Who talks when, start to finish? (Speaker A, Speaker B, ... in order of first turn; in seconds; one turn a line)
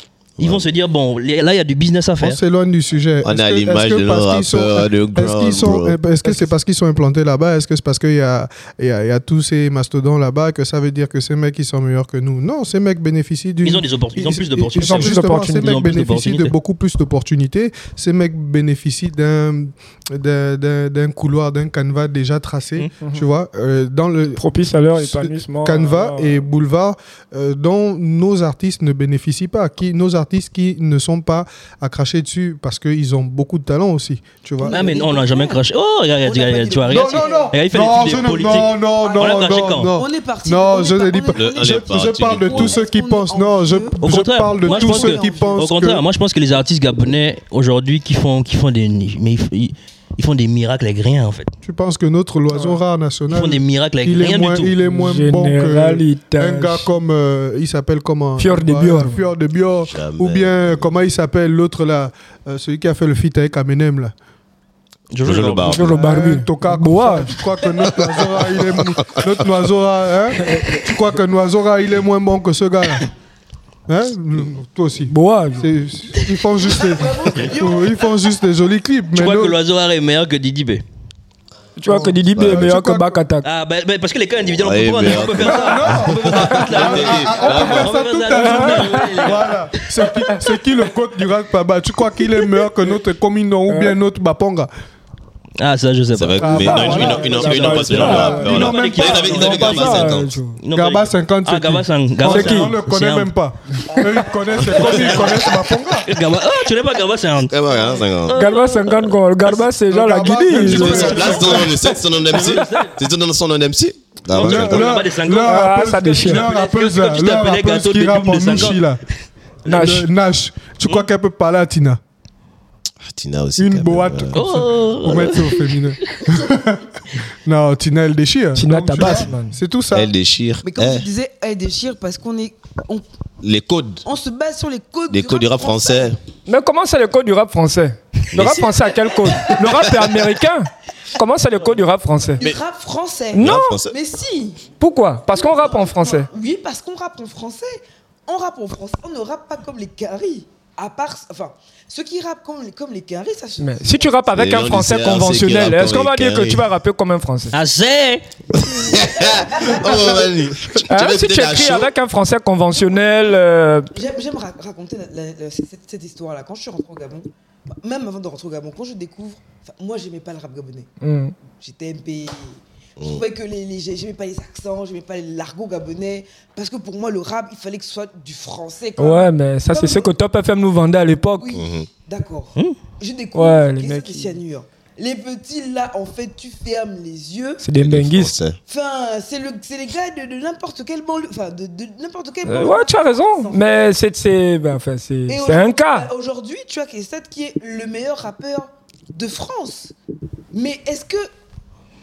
Speaker A: 0.4-0.6
Speaker B: 0.4-2.4
Speaker C: 2.2-24.4
Speaker A: 3.2-6.0
Speaker B: 13.6-16.5
Speaker D: 14.8-15.7
Speaker D: 24.4-26.4
Speaker C: 24.9-34.9
Speaker E: 34.6-35.6
Speaker B: 34.6-39.9
Speaker E: 36.2-44.0
Speaker C: 36.9-46.0
Speaker A: 41.3-42.8
Speaker B: 44.0-51.5
Speaker E: 44.6-45.7
Speaker C: 51.6-64.1
Speaker B: 53.3-54.7
Speaker D: 54.8-56.9
Speaker D: 58.4-59.2
Speaker A: 59.9-60.9
Speaker B: 65.1-65.9
Speaker A: 65.2-66.0
Speaker D: 65.7-67.4
Speaker C: 65.8-73.1
Speaker A: 68.4-69.2
Speaker D: 70.4-70.7
Speaker C: 73.9-79.5
Speaker D: 75.1-75.7
Speaker E: 76.7-78.1
Speaker B: 79.1-80.8
Speaker D: 81.8-83.5
Speaker C: 81.9-83.2
Speaker A: 82.3-82.7
Speaker B: 83.4-90.1
Speaker A: 84.5-88.0
Speaker C: 85.3-94.7
Speaker D: 88.3-89.1
Speaker D: 93.7-94.0
Speaker B: 95.6-103.3
Speaker A: 96.1-100.3
Speaker C: 96.4-99.5
Speaker D: 96.5-100.6
Speaker C: 100.7-106.1
Speaker D: 102.2-102.7
Speaker B: 104.6-109.6
Speaker A: 107.5-108.4
Speaker D: 108.3-111.6
Speaker C: 109.9-111.8
Speaker B: 110.5-113.0
Speaker A: 110.5-115.0
Speaker B: 114.3-118.8
Speaker C: 114.3-119.0
Speaker D: 115.4-116.5
Speaker D: 119.7-120.1
Speaker C: 119.7-122.0
Speaker A: 123.0-124.6
Speaker C: 123.6-126.9
Speaker B: 124.3-126.2
Speaker C: 127.4-130.1
Speaker D: 128.5-129.6
Speaker A: 129.9-131.1
Speaker E: 130.6-133.0
Speaker A: 133.4-134.0
Speaker E: 134.0-136.1
Speaker A: 135.1-136.2
Speaker D: 136.5-142.4
Speaker A: 138.3-138.8
Speaker E: 139.3-139.6
Speaker A: 139.4-140.0
Speaker E: 142.4-144.6
Speaker D: 143.3-143.8
Speaker A: 143.4-143.9
Speaker D: 144.8-146.3
Speaker E: 145.3-154.2
Speaker D: 153.6-157.6
Speaker A: 154.3-156.7
Speaker B: 157.5-158.2
Speaker A: 158.5-161.9
Speaker E: 158.9-160.3
Speaker D: 160.8-163.9
Speaker E: 163.9-170.9
Speaker D: 171.0-171.3
Speaker E: 171.6-180.1
Speaker D: 179.0-181.5
Speaker E: 181.4-187.6
Speaker A: 181.5-181.9
Speaker D: 183.3-184.3
Speaker D: 187.6-188.3
Speaker A: 187.8-188.6
Speaker E: 188.7-193.9
Speaker D: 192.4-196.1
Speaker E: 195.3-199.9
Speaker E: 200.5-201.3